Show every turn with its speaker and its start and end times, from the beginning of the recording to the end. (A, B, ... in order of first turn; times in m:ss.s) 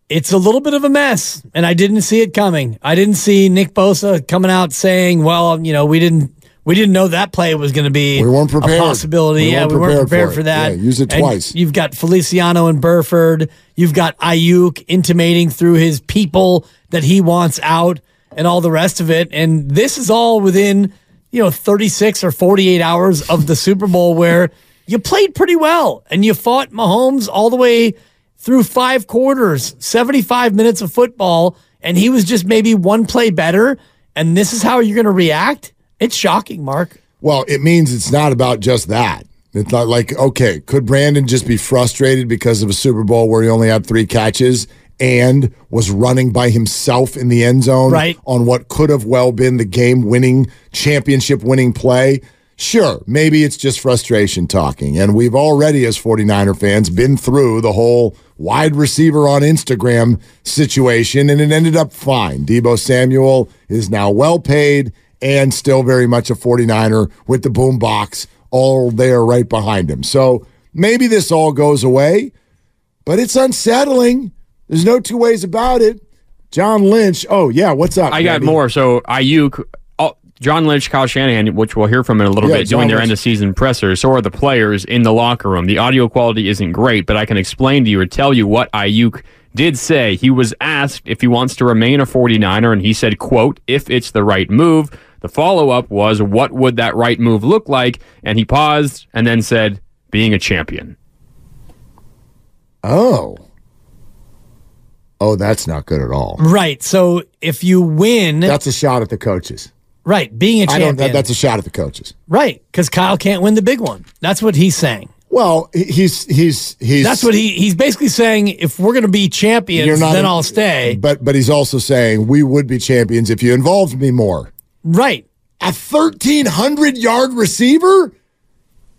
0:00.1-0:37.0 A
0:08.2-0:11.6 B
0:37.2-1:12.3 B
0:47.9-0:48.2 A
1:13.1-1:18.6 B
1:18.1-1:41.0 C
1:22.4-1:23.2 B
1:42.8-1:43.4 B
1:45.2-1:46.4 B
1:46.4-1:48.6 A
1:48.4-1:49.7 B
1:50.0-1:51.3 A
1:50.7-1:52.1 B
1:52.3-1:55.1 A
1:55.3-1:57.3 B
1:57.0-2:01.0 A
1:59.8-2:04.5 B
2:04.8-2:05.2 A
2:05.6-2:08.1 B